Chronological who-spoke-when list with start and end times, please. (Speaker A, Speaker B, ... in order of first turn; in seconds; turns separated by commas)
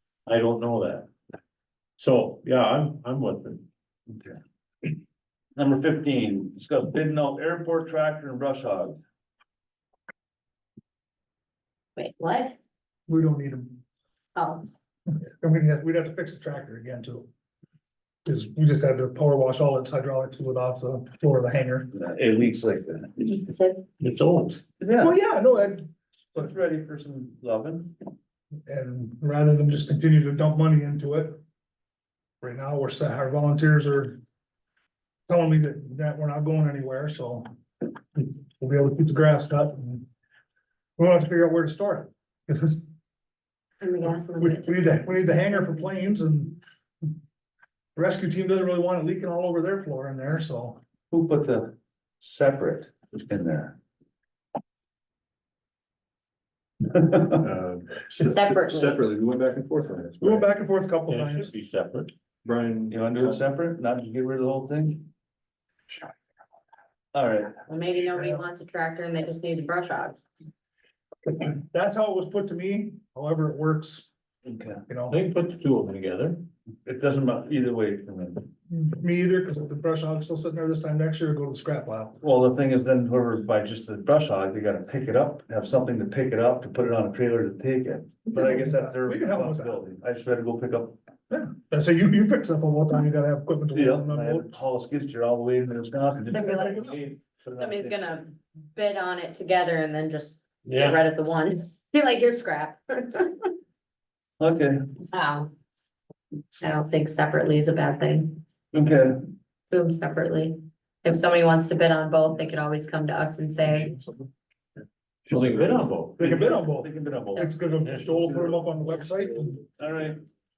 Speaker A: 0.3-1.1, Speaker A: 2.0-3.6, Speaker B: 4.1-4.4, Speaker B: 5.6-9.0, Speaker C: 12.0-12.6, Speaker D: 13.1-13.8, Speaker C: 14.3-14.7, Speaker D: 15.3-17.3, Speaker D: 18.3-21.9, Speaker B: 21.9-23.2, Speaker C: 23.2-23.8, Speaker A: 24.0-24.6, Speaker B: 24.8-25.1, Speaker D: 25.0-26.5, Speaker B: 26.4-27.9, Speaker D: 28.7-31.4, Speaker D: 32.4-34.2, Speaker D: 35.3-37.5, Speaker D: 38.1-40.1, Speaker D: 41.0-42.9, Speaker C: 43.8-45.9, Speaker D: 44.4-46.6, Speaker D: 48.0-50.8, Speaker B: 51.1-53.8, Speaker B: 56.9-57.3, Speaker E: 57.4-60.5, Speaker C: 58.1-59.0, Speaker D: 60.2-61.5, Speaker A: 61.1-62.1, Speaker E: 62.4-63.4, Speaker B: 62.9-65.1, Speaker B: 67.1-67.6, Speaker C: 67.7-70.2, Speaker D: 71.3-74.1, Speaker B: 74.5-74.8, Speaker D: 74.9-75.2, Speaker A: 75.1-76.4, Speaker B: 76.8-78.5, Speaker D: 78.7-82.2, Speaker B: 82.2-91.0, Speaker D: 88.3-89.8, Speaker D: 91.3-94.5, Speaker B: 93.7-98.2, Speaker C: 96.3-96.8, Speaker D: 96.5-96.8, Speaker C: 97.6-103.5, Speaker A: 100.7-101.0, Speaker B: 104.4-104.8, Speaker C: 105.1-105.5, Speaker C: 106.6-108.4, Speaker B: 108.7-109.2, Speaker C: 109.7-114.0, Speaker D: 113.7-114.1, Speaker A: 115.2-116.3, Speaker D: 116.2-119.6, Speaker B: 116.2-117.5, Speaker C: 117.3-118.0, Speaker A: 117.8-118.3, Speaker C: 118.8-119.1, Speaker B: 119.8-120.2